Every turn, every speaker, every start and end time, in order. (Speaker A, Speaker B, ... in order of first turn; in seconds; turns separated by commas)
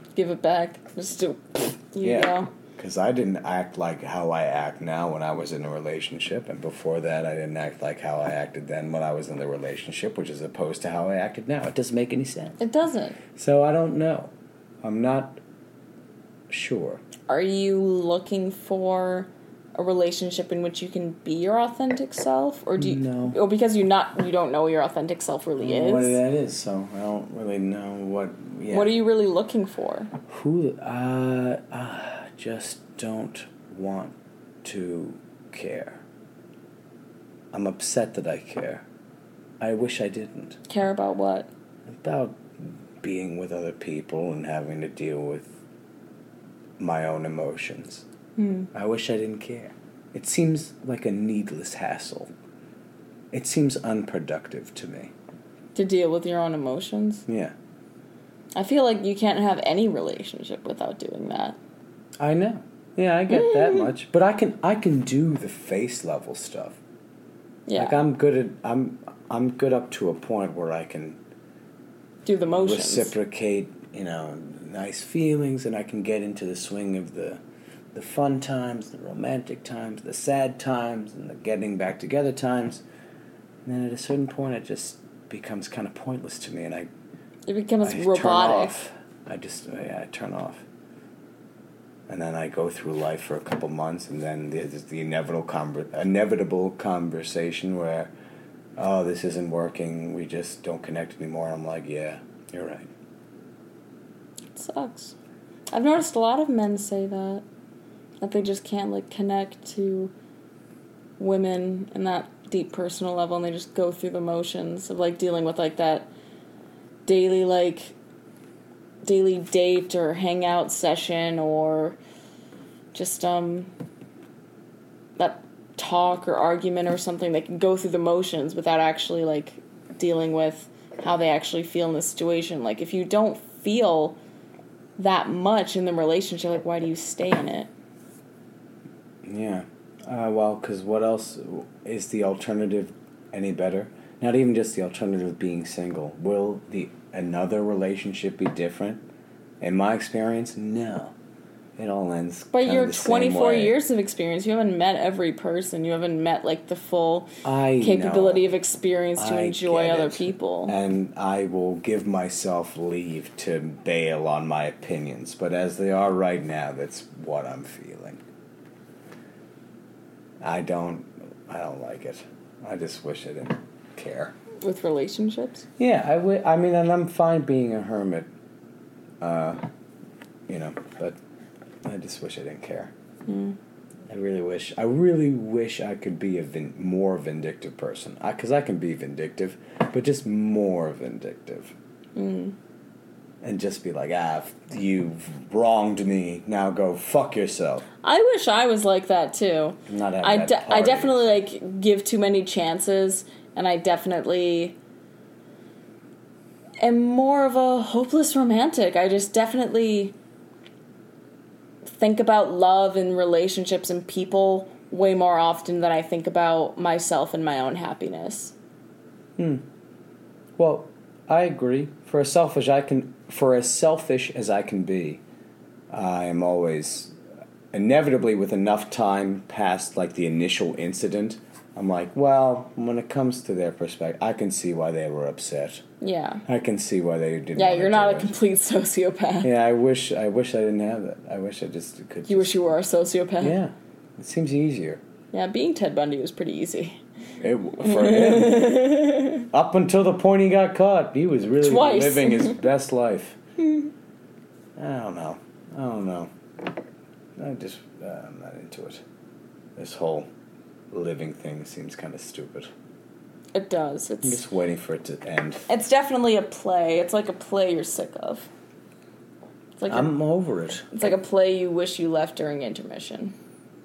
Speaker A: 0.1-2.5, Speaker B: 2.0-12.6, Speaker A: 12.6-13.2, Speaker B: 13.3-14.3, Speaker B: 14.8-15.4, Speaker B: 16.5-17.0, Speaker A: 17.3-26.2, Speaker B: 22.8-23.4, Speaker B: 25.6-28.9, Speaker A: 28.7-30.1, Speaker B: 30.3-36.0, Speaker B: 37.5-38.8, Speaker B: 39.6-40.6, Speaker A: 40.7-41.5, Speaker B: 41.9-42.4, Speaker B: 43.0-45.5, Speaker B: 46.8-48.1, Speaker A: 48.4-48.7, Speaker B: 48.7-52.3, Speaker B: 53.3-55.1, Speaker A: 55.8-57.3, Speaker B: 57.3-57.5, Speaker A: 58.5-61.6, Speaker B: 62.2-66.8, Speaker A: 63.3-63.9, Speaker A: 67.7-68.0, Speaker B: 67.8-71.2, Speaker A: 72.3-73.1, Speaker B: 72.5-77.4, Speaker B: 77.9-82.8, Speaker B: 83.7-86.9, Speaker A: 87.5-88.8, Speaker B: 87.8-90.6, Speaker B: 92.1-98.1, Speaker B: 98.8-102.9, Speaker A: 104.5-105.2, Speaker A: 105.7-107.4, Speaker A: 108.2-110.1, Speaker A: 111.2-116.1, Speaker A: 117.1-118.0, Speaker A: 119.0-122.0, Speaker A: 122.9-123.7, Speaker A: 125.2-134.2, Speaker A: 135.0-137.7, Speaker B: 139.2-149.0, Speaker B: 149.6-151.1, Speaker B: 151.8-153.8, Speaker A: 152.5-160.8, Speaker B: 157.4-158.5, Speaker B: 159.2-168.2, Speaker B: 170.4-174.3, Speaker A: 174.6-175.7, Speaker B: 175.8-178.3, Speaker B: 179.2-179.6, Speaker B: 180.5-181.2, Speaker B: 181.8-182.9, Speaker A: 183.3-183.6, Speaker B: 184.1-191.7, Speaker A: 192.2-192.6, Speaker B: 193.4-197.9, Speaker A: 198.0-204.8, Speaker B: 199.9-201.2, Speaker A: 206.8-210.2, Speaker A: 211.8-218.6, Speaker B: 219.4-219.6, Speaker B: 220.6-225.2, Speaker B: 225.9-227.2, Speaker B: 227.7-235.8, Speaker A: 236.0-236.4, Speaker B: 236.5-238.3, Speaker A: 237.6-239.5, Speaker B: 239.4-242.6, Speaker A: 242.3-243.6, Speaker B: 243.4-245.0, Speaker A: 245.3-247.0, Speaker B: 247.4-253.4, Speaker A: 247.8-249.5, Speaker A: 251.6-252.6, Speaker B: 254.8-256.3, Speaker B: 257.4-259.0, Speaker B: 259.8-260.3, Speaker B: 260.9-262.7, Speaker A: 263.5-264.4, Speaker B: 264.2-265.7, Speaker A: 265.7-268.5, Speaker A: 269.8-270.1, Speaker B: 269.9-270.9, Speaker A: 270.9-273.4